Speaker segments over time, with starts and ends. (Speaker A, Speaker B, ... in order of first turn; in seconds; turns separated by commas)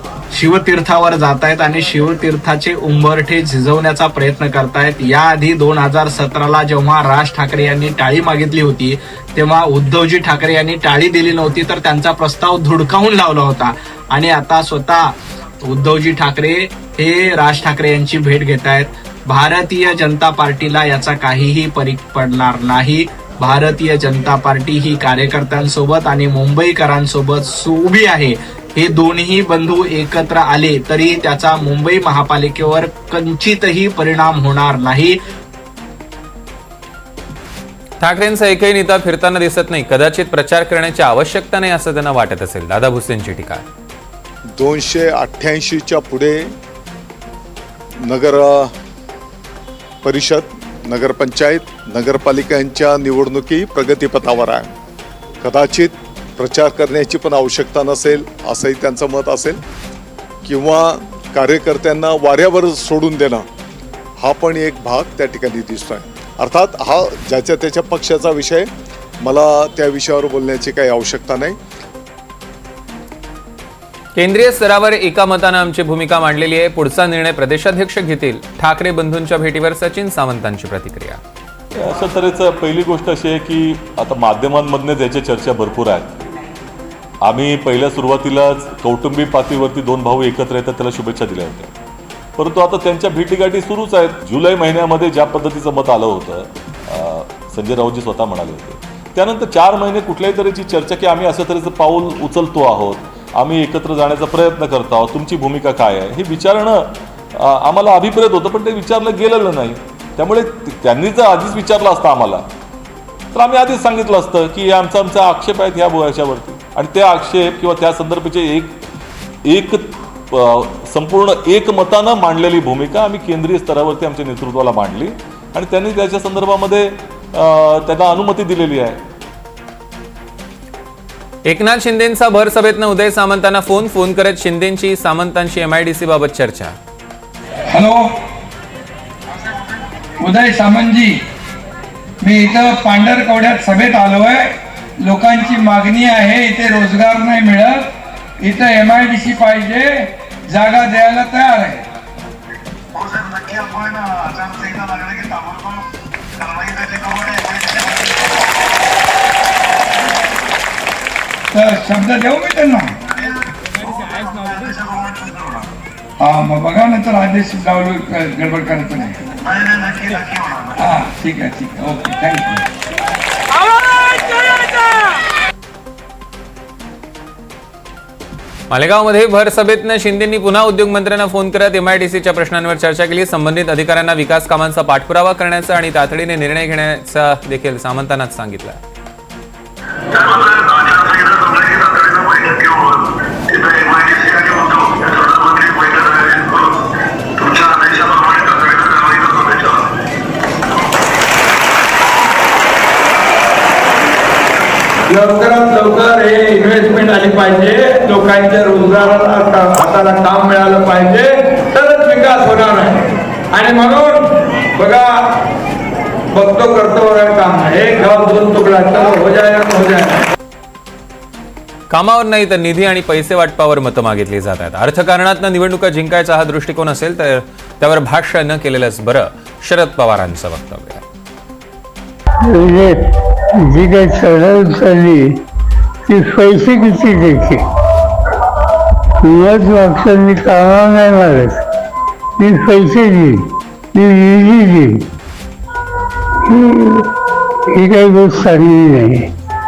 Speaker A: 0.3-15.1, Speaker A: 15.6-35.2, Speaker B: 38.0-43.6, Speaker C: 44.6-46.4, Speaker C: 48.0-48.7, Speaker C: 50.0-54.7, Speaker C: 55.4-59.6, Speaker C: 60.5-63.5, Speaker C: 64.2-68.7, Speaker C: 69.2-71.6, Speaker B: 74.2-81.2, Speaker D: 81.8-86.2, Speaker D: 87.2-91.7, Speaker D: 92.4-112.4, Speaker D: 113.3-118.8, Speaker D: 119.5-129.0, Speaker B: 131.5-136.8, Speaker E: 137.7-138.1, Speaker E: 140.2-141.2, Speaker E: 142.2-147.9, Speaker E: 148.4-151.8, Speaker E: 153.1-155.2, Speaker E: 156.6-157.2, Speaker E: 161.5-162.9, Speaker E: 166.2-169.3, Speaker E: 170.7-172.6, Speaker B: 178.7-188.8, Speaker E: 197.5-199.4, Speaker E: 205.1-215.2, Speaker E: 216.3-220.2, Speaker B: 221.9-231.0, Speaker F: 232.5-232.9, Speaker F: 233.8-235.2, Speaker F: 236.1-237.6, Speaker F: 239.3-241.5, Speaker F: 242.4-243.3, Speaker F: 244.0-244.9, Speaker F: 247.8-249.1